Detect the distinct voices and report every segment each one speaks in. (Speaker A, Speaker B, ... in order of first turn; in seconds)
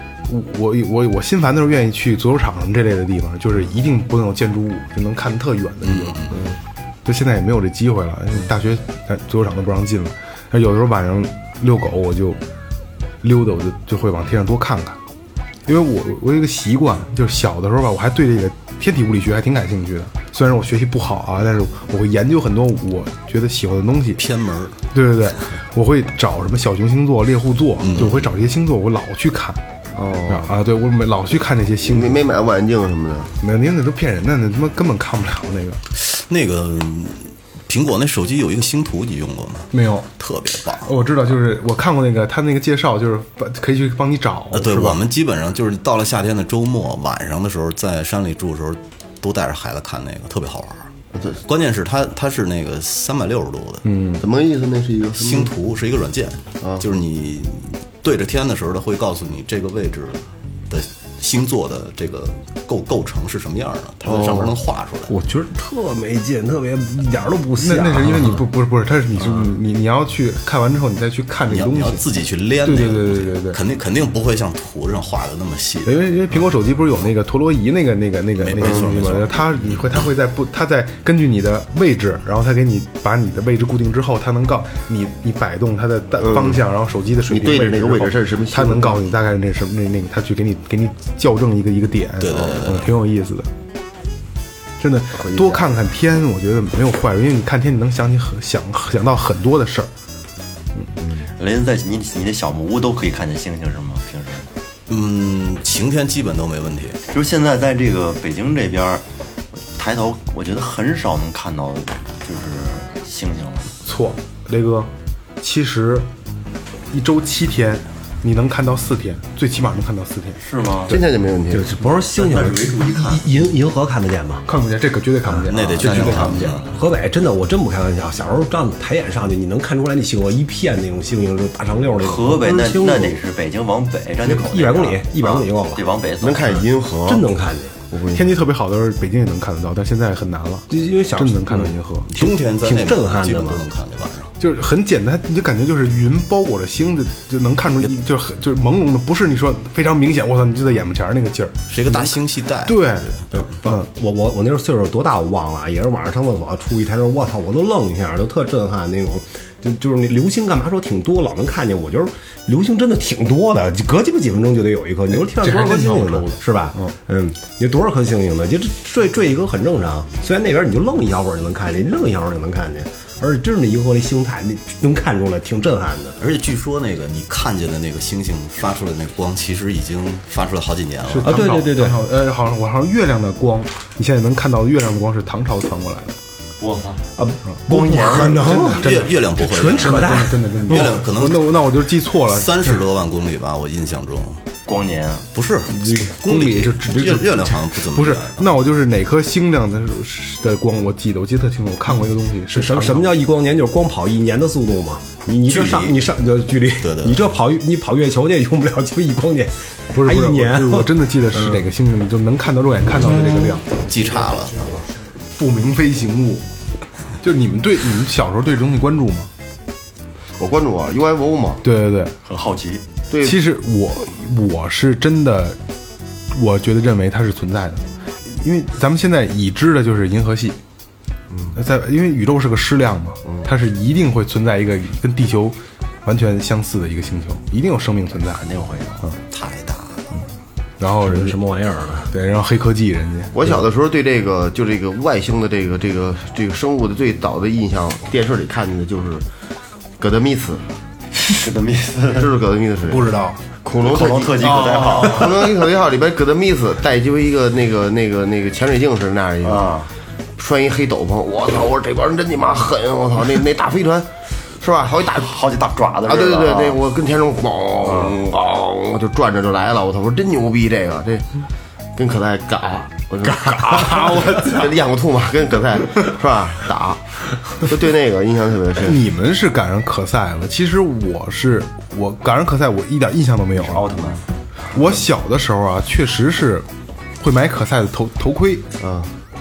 Speaker A: 0.3-6.2, 7.0-12.4, 13.2-15.0, 15.7-24.2, 24.9-29.6, 30.3-32.2, 33.4-35.8, 39.7-40.1, 40.8-45.0, 53.8-54.2, 67.6-72.0, 72.6-73.6, 75.8-93.5, 94.8-99.9, 113.8-116.1, 116.9-121.0, 124.5-126.6, 138.1-142.1, 144.4-152.1, 152.6-153.9, 165.3-166.9, 181.1-186.2, 188.8-192.8, 195.7-203.1, 209.9-213.8, 215.3-216.4, 217.2-219.3, 221.6-222.1, 223.2-225.6, 226.3-230.6, 231.5-238.4, 240.8-241.4, 242.1-243.5, 252.9-253.4, 254.4-255.2, 278.8-283.8, 284.7-286.7, 287.2-288.6
Speaker B: 5.8-6.4, 24.2-24.8, 27.8-28.3, 35.9-40.9, 44.5-50.9, 51.4-53.8, 55.1-65.1, 71.5-76.0, 78.4-80.1, 92.2-93.0, 104.9-107.0, 125.5-126.8, 142.1-144.3, 151.7-153.2, 176.2-181.5, 188.0-194.4, 195.3-198.4, 205.5-205.9, 206.8-207.2, 213.7-214.8, 239.3-240.0
Speaker C: 6.3-6.6, 29.9-30.5, 31.9-33.3, 51.1-51.4, 54.2-55.5, 64.0-64.5, 78.6-79.1, 86.2-86.6, 87.3-89.0, 95.2-95.7, 120.9-121.7, 136.2-137.3, 137.9-138.4, 220.4-221.6, 223.1-223.4, 243.3-249.2, 250.0-250.7, 252.1-253.1, 253.6-259.8, 260.4-265.3, 266.1-271.3, 271.9-279.0, 288.8-289.1
Speaker D: 65.1-68.4, 121.5-124.4, 125.3-133.2, 134.2-135.8, 136.4-137.7, 140.7-143.6, 153.3-176.2, 181.2-182.0, 187.2-190.9, 202.5-211.6, 213.2-213.5, 241.0-242.1
Speaker E: 101.4-104.5, 107.1-109.0, 109.7-113.7, 120.4-121.0, 121.9-123.3, 125.9-126.6, 131.9-136.5, 186.6-187.1, 187.7-188.8, 194.7-195.2, 222.2-222.8, 238.4-239.1, 251.2-252.3, 253.8-255.4, 259.4-259.9, 265.2-266.8, 283.6-284.2